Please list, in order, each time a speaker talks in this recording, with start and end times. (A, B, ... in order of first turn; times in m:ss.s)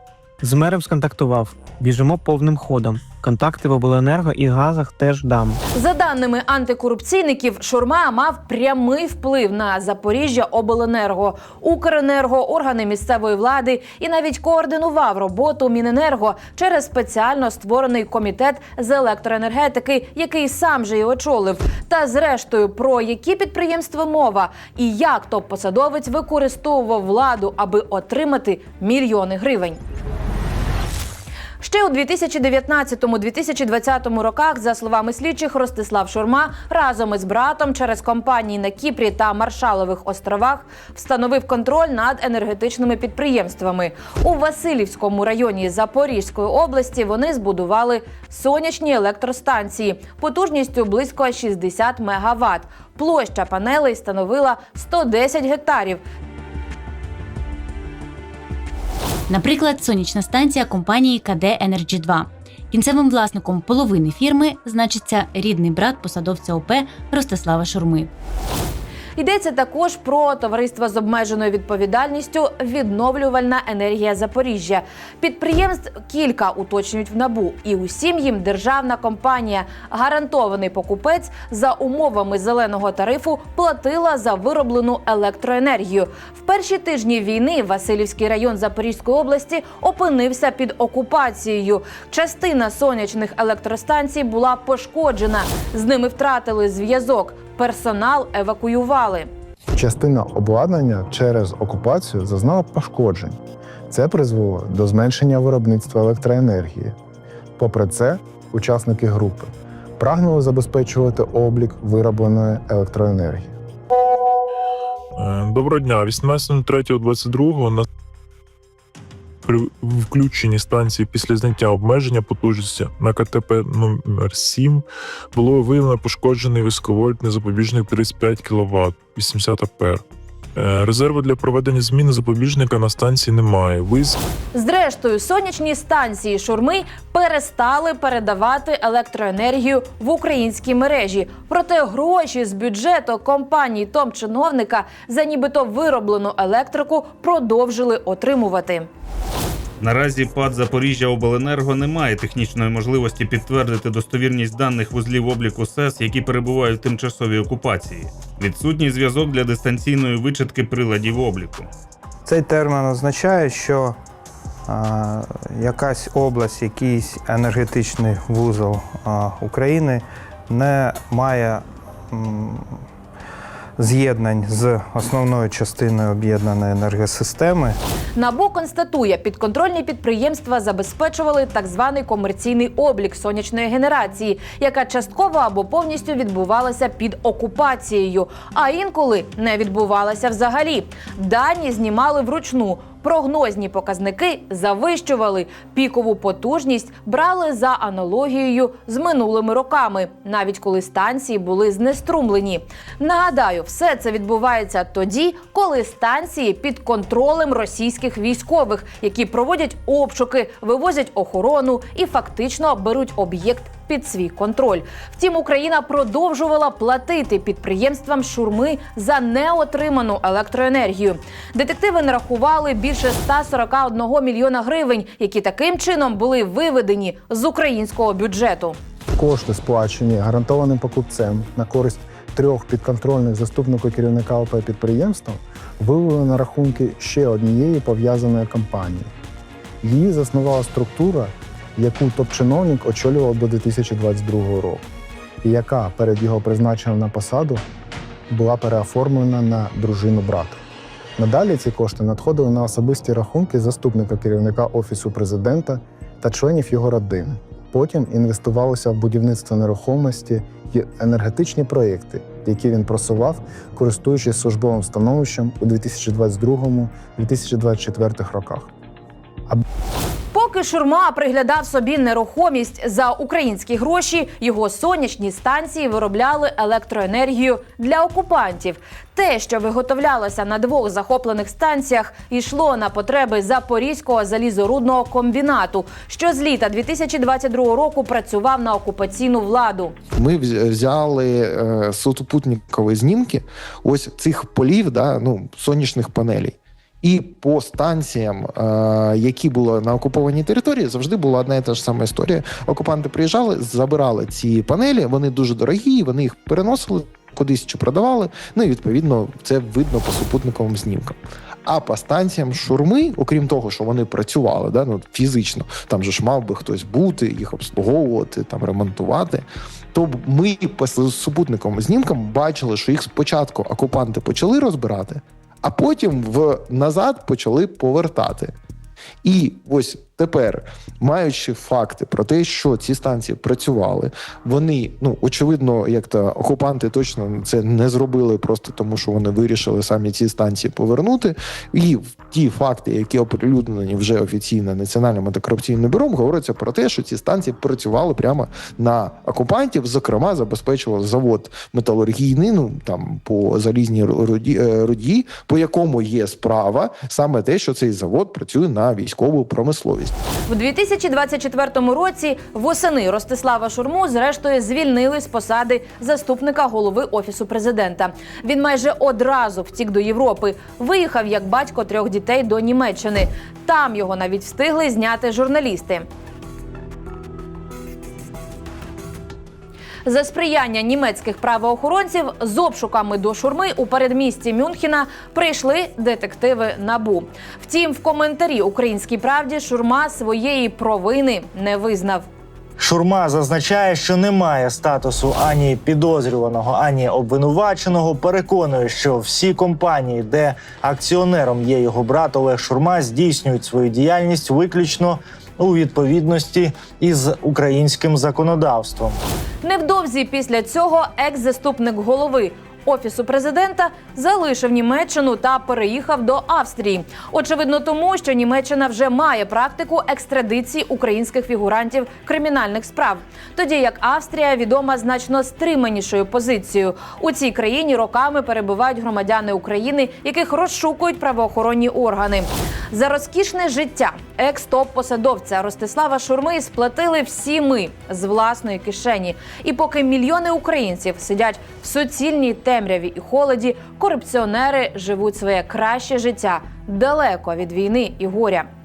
0:00.4-0:05.6 A
0:05.7-0:29.8 B
0:31.6-0:56.0 B
0:59.3-1:08.1 C
1:09.2-1:39.3 B
1:39.7-1:43.4 D
1:43.9-1:46.9 D
1:47.6-1:53.5 D
1:55.2-1:57.9 E
1:59.4-2:10.0 E
2:10.6-2:14.2 E
2:14.5-2:28.9 B
2:29.8-2:41.7 F
2:42.2-2:43.9 G
2:44.7-2:52.7 G
2:53.8-2:57.8 G
2:58.2-3:48.8 B
3:49.2-3:59.1 D
3:59.8-4:04.8 D
4:05.4-4:07.6 D
4:08.3-4:10.6 D
4:11.2-4:28.7 D
4:30.3-4:49.9 B
4:50.2-5:28.5 H
5:29.2-6:00.1 H
6:00.5-6:16.0 B
6:20.0-6:32.2 B
6:32.8-6:49.2 I
6:49.6-7:28.7 B